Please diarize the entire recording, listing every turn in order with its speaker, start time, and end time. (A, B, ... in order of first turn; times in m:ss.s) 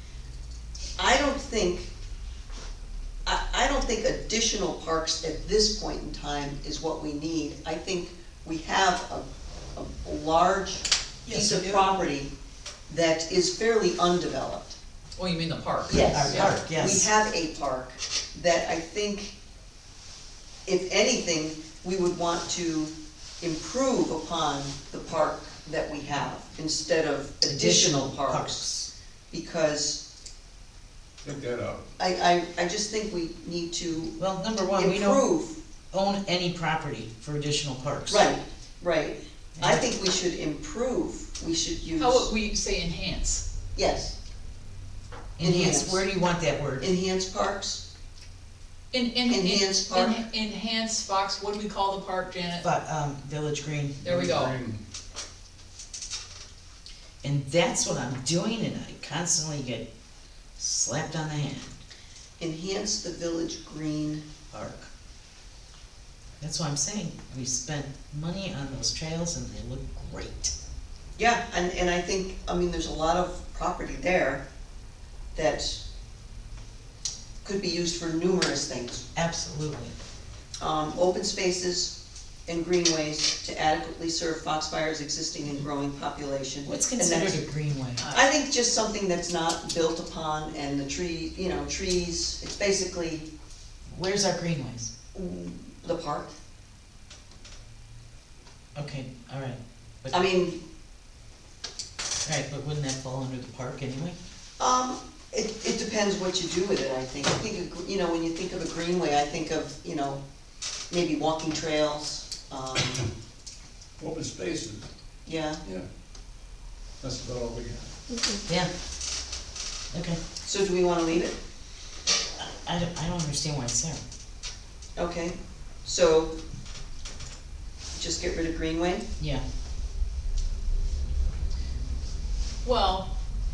0:01.0-0:01.9 A
0:03.2-0:12.3 A
0:11.3-0:11.9 B
0:12.9-0:14.8 A
0:15.2-0:16.5 C
0:15.9-0:19.4 A
0:16.0-0:17.1 B
0:20.6-0:28.7 A
0:27.5-0:28.9 B
0:29.3-0:30.0 A
0:31.2-0:31.8 D
0:32.0-0:34.2 A
0:34.2-0:35.2 B
0:34.7-0:35.6 A
0:35.9-0:38.3 B
0:38.1-0:42.3 A
0:39.6-0:39.8 B
0:42.0-0:43.4 C
0:43.8-0:44.1 A
0:45.4-0:46.9 B
0:45.4-0:46.0 A
0:46.8-0:47.8 A
0:48.9-0:52.7 C
0:49.3-0:50.2 A
0:52.6-0:54.0 B
0:54.0-0:54.8 D
0:54.0-0:54.6 C
0:57.2-0:59.9 B
1:00.6-1:01.8 B
1:02.4-1:04.3 A
1:04.5-1:04.9 B
1:06.4-1:10.5 B
1:11.2-1:14.4 A
1:15.3-1:15.8 A
1:17.4-1:19.0 A
1:19.1-1:19.9 B
1:20.6-1:22.0 A
1:22.5-1:27.4 A
1:26.6-1:28.0 B
1:28.0-1:28.2 C
1:28.1-1:33.3 A
1:33.9-1:34.9 B
1:35.1-1:36.3 A
1:38.7-1:40.1 B
1:40.1-1:40.6 A
1:42.2-1:44.2 B
1:44.6-1:50.2 A
1:50.9-1:53.0 A
1:54.0-1:54.9 D
1:55.2-1:55.6 A
1:57.0-1:57.9 D
1:59.9-2:00.2 B
2:00.4-2:01.4 A
2:02.4-2:04.0 B
2:05.0-2:06.3 A
2:07.9-2:09.0 A
2:09.2-2:09.4 B
2:12.6-2:13.1 C